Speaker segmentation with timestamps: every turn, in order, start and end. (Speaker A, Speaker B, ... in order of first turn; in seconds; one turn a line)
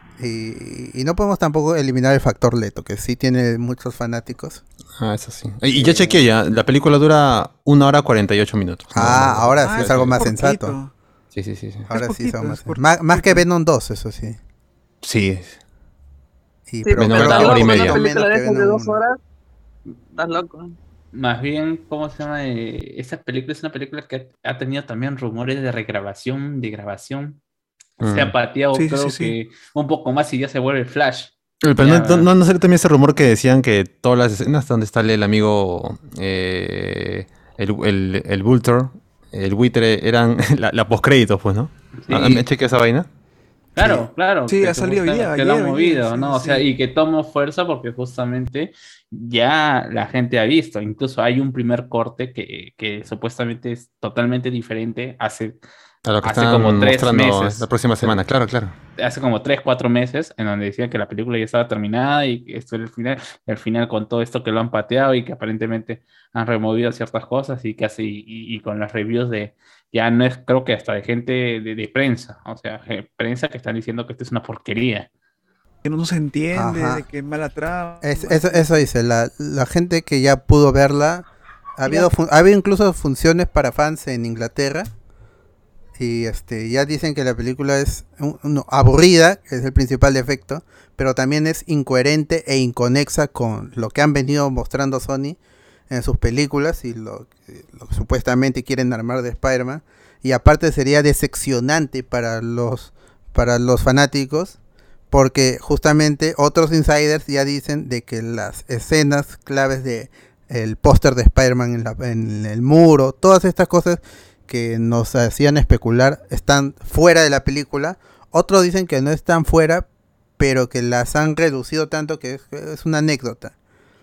Speaker A: 0.2-4.6
Speaker B: 5.0-10.2
Speaker A: 5.8-6.2
Speaker A: 8.9-10.8
Speaker C: 9.6-10.9
Speaker B: 11.3-11.9
Speaker C: 11.9-13.4
Speaker A: 11.9-14.4
Speaker B: 15.0-15.6
Speaker A: 16.7-19.0
Speaker D: 16.9-19.2
Speaker B: 17.0-18.0
Speaker E: 17.2-17.5
Speaker D: 20.1-20.8
Speaker E: 21.1-27.4
Speaker B: 28.0-28.3
Speaker E: 28.0-32.3
Speaker C: 28.7-29.4
Speaker B: 31.6-43.1
Speaker E: 42.0-42.5
Speaker E: 43.8-55.6
Speaker C: 44.5-46.7
Speaker B: 56.0-58.7
Speaker E: 56.2-57.7
Speaker E: 59.0-75.1
Speaker C: 75.8-78.9
Speaker A: 76.5-77.1
Speaker A: 78.0-84.9
Speaker A: 86.0-95.4
Speaker A: 95.9-104.6
Speaker A: 105.1-119.9
Speaker A: 120.4-123.5